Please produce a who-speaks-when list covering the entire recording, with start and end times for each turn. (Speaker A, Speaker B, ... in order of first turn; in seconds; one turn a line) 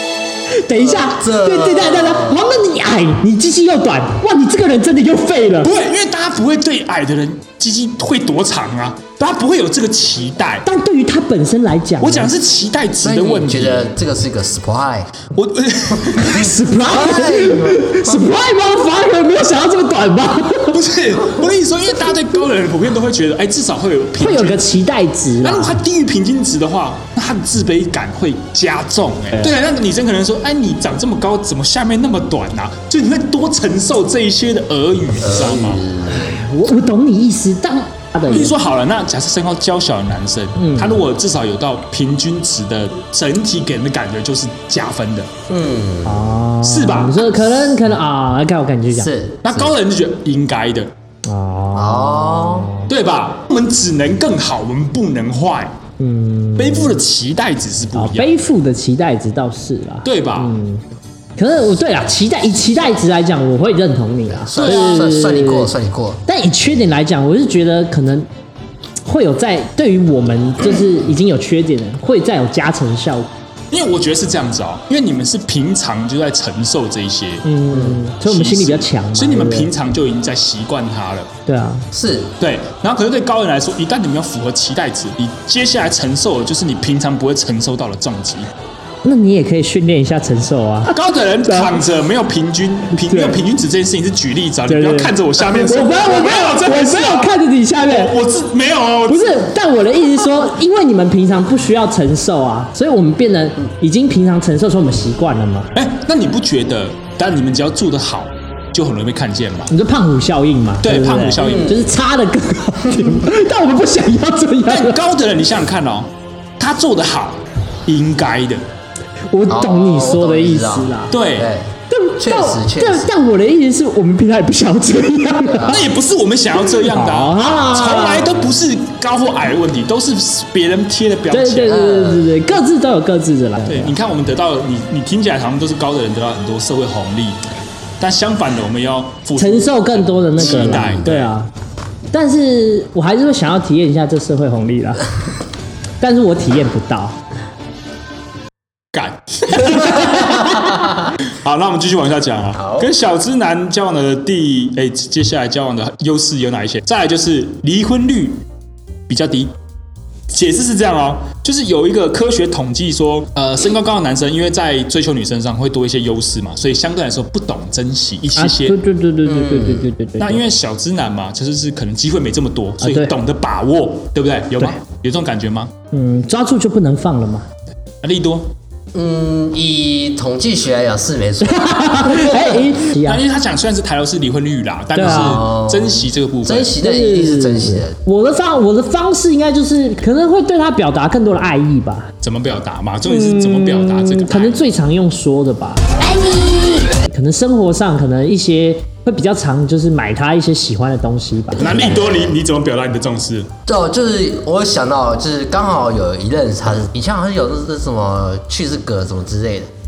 Speaker A: 0.6-5.7
Speaker B: 0.8-2.4
Speaker C: 5.6-10.6
Speaker A: 10.6-12.3
Speaker C: 12.0-13.9
Speaker B: 13.0-15.2
Speaker C: 15.3-16.5
Speaker A: 16.1-20.8
Speaker B: 16.8-18.2
Speaker C: 20.7-24.7
Speaker A: 24.2-25.8
Speaker C: 25.4-35.8
Speaker B: 35.2-36.4
Speaker A: 36.1-38.5
Speaker C: 38.3-45.3
Speaker A: 40.5-41.0
Speaker B: 45.5-46.4
Speaker A: 46.0-49.1
Speaker C: 46.6-47.3
Speaker B: 48.9-49.7
Speaker C: 49.4-50.9
Speaker A: 51.2-52.9
Speaker B: 51.7-52.7
Speaker C: 52.9-55.7
Speaker A: 56.0-57.0
Speaker C: 56.6-58.4
Speaker A: 57.9-60.8
Speaker C: 60.0-60.5
Speaker A: 61.4-65.7
Speaker B: 64.3-66.2
Speaker C: 64.5-65.1
Speaker A: 66.3-68.3
Speaker A: 69.0-73.3
Speaker C: 73.7-77.4
Speaker A: 77.4-79.7
Speaker B: 77.7-78.0
Speaker C: 78.2-81.3
Speaker A: 81.5-81.8
Speaker B: 81.9-82.3
Speaker C: 82.4-88.5
Speaker A: 89.0-90.9
Speaker C: 90.9-99.5
Speaker A: 91.5-91.8
Speaker A: 93.0-93.4
Speaker A: 94.7-98.1
Speaker A: 99.1-105.7
Speaker C: 105.7-109.7
Speaker A: 109.7-115.0
Speaker C: 110.8-111.7
Speaker B: 111.4-111.8
Speaker C: 114.7-118.6
Speaker A: 119.3-121.1
Speaker B: 119.5-123.2
Speaker C: 121.1-121.5
Speaker A: 121.9-125.8
Speaker B: 125.5-125.9
Speaker C: 125.6-131.9
Speaker A: 126.8-128.3
Speaker A: 131.3-133.9
Speaker B: 131.6-132.4
Speaker C: 133.6-137.4
Speaker C: 138.0-141.3
Speaker A: 139.4-141.5
Speaker B: 140.4-141.1
Speaker A: 142.1-145.1
Speaker A: 146.0-147.2
Speaker C: 148.9-158.4
Speaker B: 152.6-152.9
Speaker C: 159.1-159.5
Speaker C: 160.3-168.7
Speaker A: 168.4-170.4
Speaker B: 169.2-169.9
Speaker C: 170.2-175.7
Speaker A: 172.8-173.1
Speaker A: 175.9-177.4
Speaker C: 178.0-178.5
Speaker B: 178.9-182.6
Speaker A: 181.4-183.2
Speaker C: 183.0-186.7
Speaker A: 184.9-185.4
Speaker B: 185.0-188.0
Speaker A: 186.8-192.1
Speaker C: 192.2-194.6
Speaker A: 193.1-201.7
Speaker C: 201.6-203.5
Speaker B: 201.6-202.3
Speaker B: 203.7-209.7